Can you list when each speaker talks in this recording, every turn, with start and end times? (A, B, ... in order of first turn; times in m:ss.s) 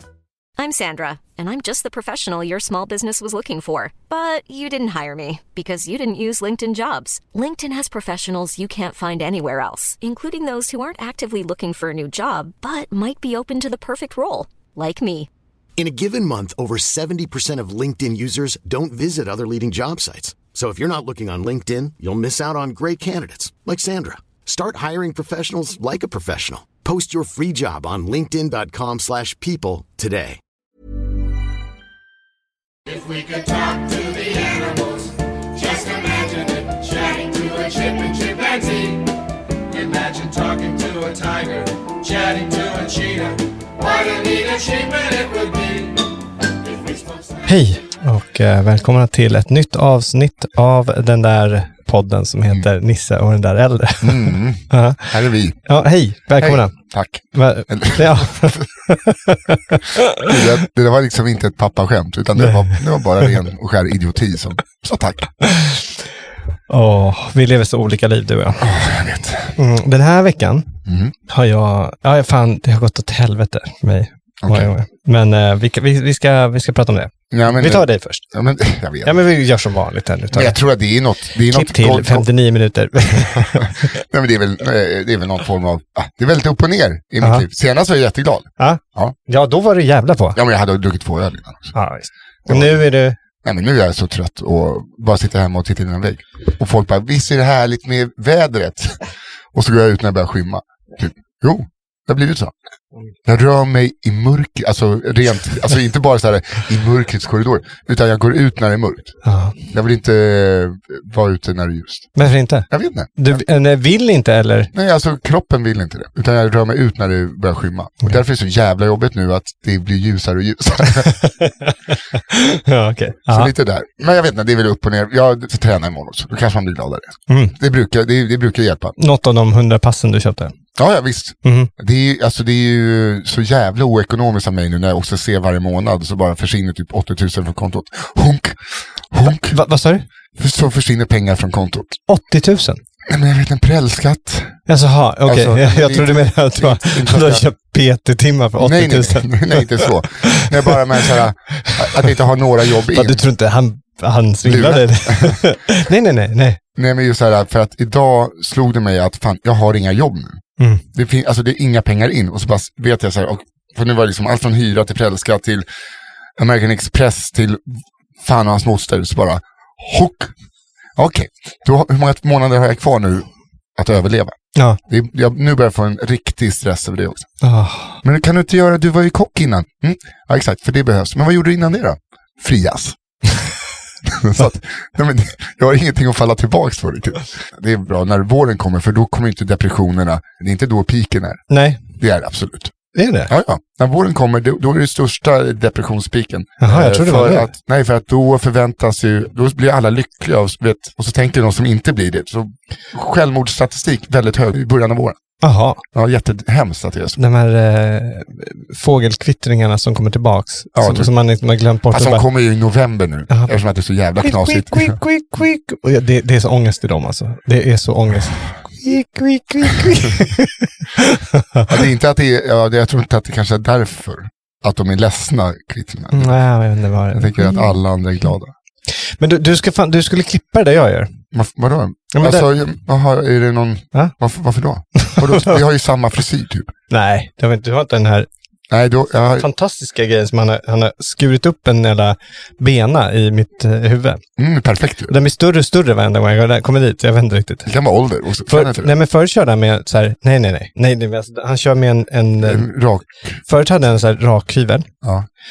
0:00.6-0:15.3 A
0:15.8-0:30.4 B
0:32.9-0:39.1 C
0:39.7-0:47.5 C
0:47.4-0:55.1 D
0:54.0-0:55.6 E
0:55.6-0:56.7 D
0:56.4-0:58.7 E
0:57.3-1:00.4 D
1:00.1-1:05.3 E
1:02.4-1:03.4 D
1:05.4-1:06.0 D
1:06.7-1:08.7 D
1:08.6-1:09.6 E
1:09.6-1:18.2 D
1:10.9-1:11.1 E
1:14.4-1:14.7 E
1:17.3-1:19.2 E
1:19.0-1:20.6 D
1:20.3-1:22.3 E
1:21.5-1:23.7 D
1:23.1-1:29.2 E
1:27.2-1:27.5 D
1:28.6-1:30.4 D
1:30.4-1:31.8 E
1:31.7-1:33.2 D
1:32.5-1:32.8 E
1:33.4-1:42.5 E
1:43.2-1:49.2 E
1:49.2-1:49.6 D
1:49.7-1:52.2 E
1:52.2-1:54.7 D
1:52.7-1:53.4 E
1:54.7-2:01.2 E
2:01.0-2:03.5 D
2:03.3-2:08.9 E
2:07.3-2:07.6 D
2:09.0-2:10.5 D
2:10.8-2:19.6 E
2:11.4-2:11.7 D
2:19.3-2:20.0 D
2:20.4-2:22.0 E
2:22.1-2:22.8 D
2:23.0-2:24.6 E
2:24.7-2:32.2 D
2:25.2-2:27.4 E
2:28.6-2:33.2 E
2:32.9-2:36.6 D
2:34.4-2:35.4 E
2:36.8-2:40.4 E
2:40.9-2:45.6 E
2:46.4-2:50.3 E
2:51.0-2:57.3 E
2:57.4-2:58.0 D
2:58.0-3:03.0 E
3:04.0-3:12.7 E
3:11.5-3:11.8 D
3:12.9-3:13.3 D
3:13.3-3:25.2 E
3:16.6-3:17.5 D
3:25.4-3:25.8 D
3:25.9-3:27.2 E
3:27.2-3:32.2 D
3:30.7-3:31.1 E
3:31.9-3:35.0 E
3:33.3-3:33.5 D
3:34.2-3:41.7 D
3:41.7-3:46.4 E
3:46.1-3:47.8 D
3:47.1-3:48.5 E
3:48.9-3:51.1 D
3:51.3-3:56.7 E
3:52.1-3:52.5 D
3:55.0-3:55.6 D
3:56.9-3:58.3 D
3:58.7-3:59.5 E
3:59.4-4:04.2 D
4:04.4-4:05.1 E
4:05.1-4:07.7 D
4:07.6-4:08.9 E
4:08.5-4:12.7 D
4:12.4-4:13.4 E
4:13.5-4:14.9 D
4:15.0-4:15.3 E